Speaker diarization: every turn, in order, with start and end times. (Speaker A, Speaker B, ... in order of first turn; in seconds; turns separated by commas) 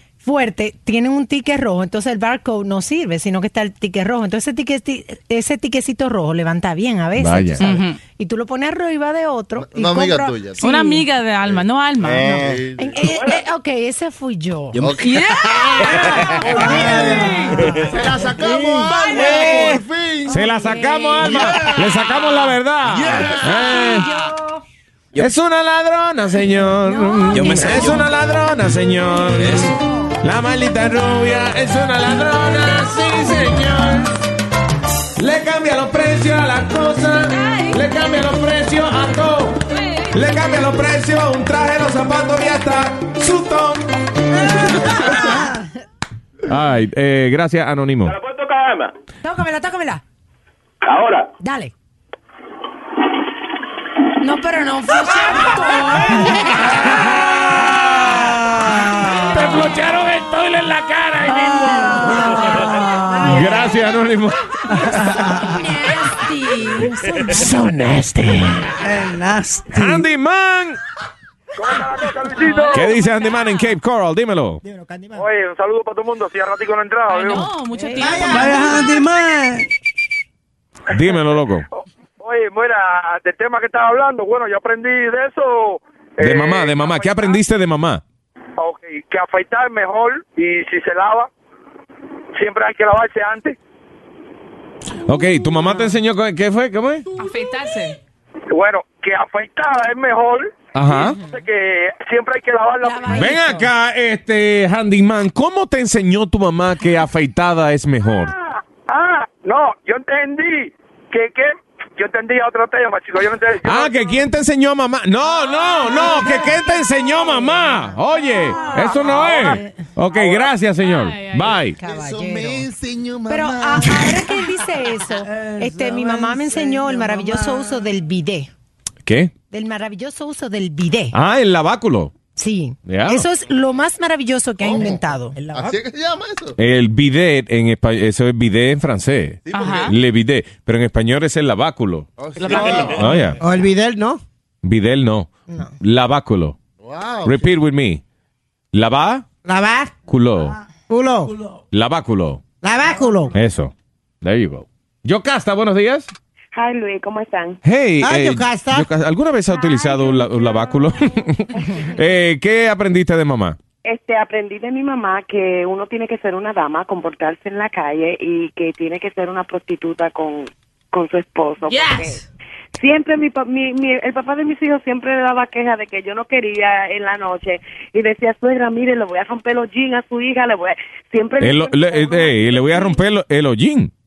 Speaker A: 0.2-10.9, Speaker B: 7.2-7.7, Speaker C: 7.6-8.0, Speaker D: 9.6-10.7, Speaker C: 10.6-12.5, Speaker D: 11.4-13.0, Speaker A: 12.8-14.9, Speaker E: 13.0-13.4, Speaker D: 14.8-15.2, Speaker C: 15.0-17.5, Speaker D: 16.4-20.4, Speaker F: 16.8-17.2, Speaker F: 18.4-19.7, Speaker B: 20.3-24.1, Speaker A: 20.3-21.2, Speaker A: 23.2-24.6, Speaker B: 25.2-34.1, Speaker A: 26.9-27.3, Speaker G: 27.3-28.1, Speaker G: 29.4-29.7, Speaker B: 35.2-39.6, Speaker C: 37.3-37.8, Speaker C: 39.7-40.2, Speaker B: 40.1-43.9, Speaker B: 44.7-45.3, Speaker B: 46.5-48.1, Speaker E: 48.0-48.9, Speaker A: 49.2-50.0, Speaker E: 50.8-51.3, Speaker A: 51.4-51.7, Speaker A: 54.2-56.5, Speaker B: 55.6-58.2, Speaker B: 59.2-62.6, Speaker G: 61.3-63.4, Speaker A: 63.1-63.7, Speaker B: 63.2-64.4, Speaker G: 64.8-65.7, Speaker A: 65.6-66.7, Speaker B: 67.3-68.6, Speaker G: 68.8-70.0, Speaker B: 69.7-70.8, Speaker E: 71.6-72.8, Speaker C: 72.4-73.7, Speaker B: 72.7-74.6, Speaker E: 75.1-77.5, Speaker C: 77.1-78.8, Speaker F: 77.9-78.4, Speaker G: 78.1-79.7, Speaker B: 80.9-81.6, Speaker E: 82.2-87.4, Speaker B: 86.2-88.0, Speaker E: 88.6-91.3, Speaker E: 92.3-93.5, Speaker B: 95.0-97.0, Speaker C: 97.2-98.0, Speaker E: 98.5-103.3, Speaker B: 100.7-101.2, Speaker A: 101.0-101.4, Speaker A: 102.8-103.7, Speaker B: 103.1-108.3, Speaker E: 108.9-114.2, Speaker B: 113.6-121.8, Speaker A: 118.4-119.8, Speaker E: 120.1-120.5, Speaker C: 120.7-121.6, Speaker A: 121.8-122.6, Speaker D: 121.8-124.0, Speaker A: 123.3-128.5, Speaker F: 125.8-127.8, Speaker B: 129.0-129.3, Speaker A: 129.5-131.2, Speaker B: 131.1-132.1, Speaker A: 132.3-135.4, Speaker B: 132.8-133.2, Speaker D: 134.6-136.6, Speaker B: 136.6-142.1, Speaker D: 139.4-139.9, Speaker C: 139.5-139.9, Speaker D: 142.2-143.1, Speaker F: 142.5-142.8, Speaker B: 142.9-143.4, Speaker F: 143.4-144.2, Speaker B: 144.6-146.6, Speaker A: 145.5-145.7, Speaker D: 146.8-147.5, Speaker B: 147.2-148.0, Speaker B: 148.7-149.2, Speaker F: 149.4-149.9, Speaker B: 150.1-150.6, Speaker F: 150.9-151.3, Speaker B: 151.7-152.4, Speaker F: 152.6-153.3, Speaker B: 153.3-156.1, Speaker H: 156.5-157.6, Speaker B: 157.6-163.6, Speaker F: 158.0-158.9, Speaker H: 163.8-172.2, Speaker C: 171.7-172.1, Speaker H: 172.8-182.9, Speaker B: 181.4-183.9